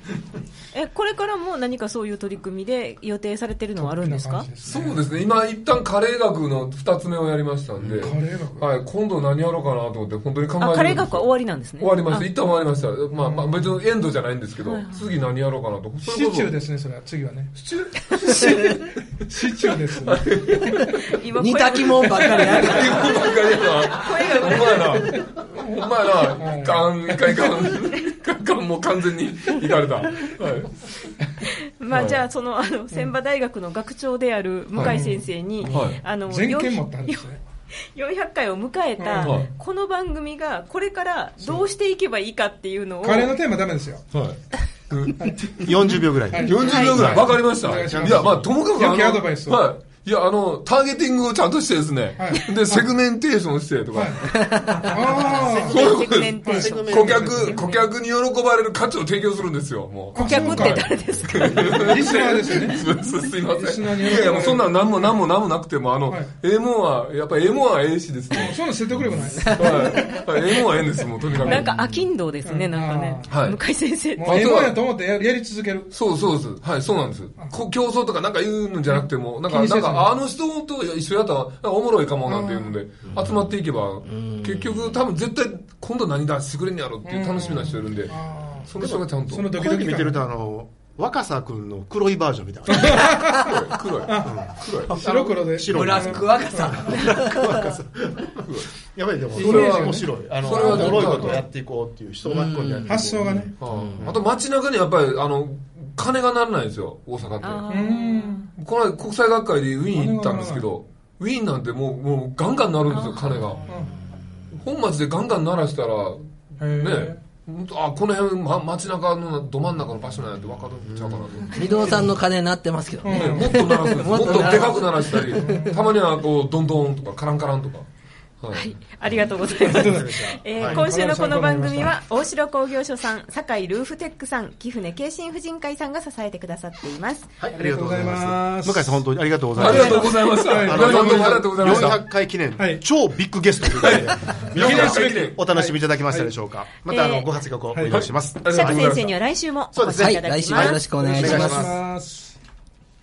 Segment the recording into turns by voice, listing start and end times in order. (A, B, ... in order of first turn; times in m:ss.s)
0:00.7-0:04.5 A
0:03.8-0:05.0 B
0:04.6-0:16.6 C
0:07.8-0:08.1 D
0:08.0-0:08.7 B
0:10.6-0:12.3 A
0:13.2-0:13.6 B
0:14.6-0:15.0 A
0:16.0-0:20.7 B
0:20.0-0:21.0 C
0:21.1-0:25.2 A
0:21.3-0:23.2 E
0:22.5-0:30.8 C
0:25.6-0:26.8 B
0:27.7-0:28.1 A
0:31.4-0:37.3 A
0:31.9-0:32.2 C
0:34.8-0:35.2 B
0:35.7-0:36.0 C
0:36.3-0:37.4 B
0:37.8-0:43.4 A
0:39.0-0:39.4 B
0:39.2-0:39.5 C
0:41.4-0:41.6 B
0:43.0-0:44.0 B
0:44.1-0:54.4 C
0:45.2-0:45.6 B
0:45.6-0:48.5 D
0:46.3-0:49.6 B
0:46.6-0:47.2 A
0:52.2-0:52.8 B
0:53.9-0:55.8 B
0:54.2-0:55.1 E
0:55.2-0:57.6 A
0:55.3-1:11.8 C
0:56.4-0:57.7 B
0:56.6-0:57.6 D
1:00.1-1:00.9 B
1:00.1-1:01.9 A
1:01.5-1:02.9 B
1:03.4-1:04.8 B
1:08.3-1:10.6 B
1:09.4-1:09.7 E
1:11.4-1:14.5 A
1:12.4-1:13.3 B
1:13.3-1:13.6 C
1:14.2-1:15.9 B
1:14.2-1:14.8 C
1:15.9-1:29.6 C
1:19.5-1:20.1 B
1:22.3-1:22.8 B
1:23.0-1:23.4 D
1:24.0-1:25.0 E
1:27.0-1:30.2 B
1:28.8-1:33.4 D
1:32.7-1:34.9 C
1:32.8-1:33.5 B
1:34.1-1:36.9 B
1:34.2-1:44.2 D
1:35.0-1:37.7 E
1:38.4-1:38.7 C
1:39.4-1:41.3 B
1:39.4-1:41.4 C
1:42.2-1:44.1 E
1:42.8-1:43.5 B
1:43.6-1:47.6 C
1:47.4-1:48.4 A
1:47.7-1:48.5 B
1:48.6-1:53.7 C
1:49.9-1:50.6 B
1:52.9-1:53.5 A
1:53.7-1:53.9 B
1:54.5-2:02.1 C
1:56.6-1:57.2 B
2:00.8-2:01.6 D
2:01.5-2:05.7 E
2:03.0-2:03.6 B
2:03.1-2:07.8 C
2:05.2-2:05.9 B
2:08.4-2:08.7 C
2:08.5-2:17.3 A
2:09.6-2:11.9 B
2:09.6-2:10.8 D
2:17.4-2:29.1 D
2:17.5-2:19.0 B
2:19.5-2:22.0 C
2:19.6-2:21.9 B
2:19.7-2:20.0 A
2:22.6-2:22.8 B
2:23.7-2:25.4 C
2:24.5-2:26.3 B
2:26.9-2:27.3 A
2:27.7-2:28.0 B
2:27.9-2:29.1 C
2:28.5-2:30.8 A
2:29.7-2:31.8 D
2:29.9-2:31.7 E
2:31.0-2:32.3 B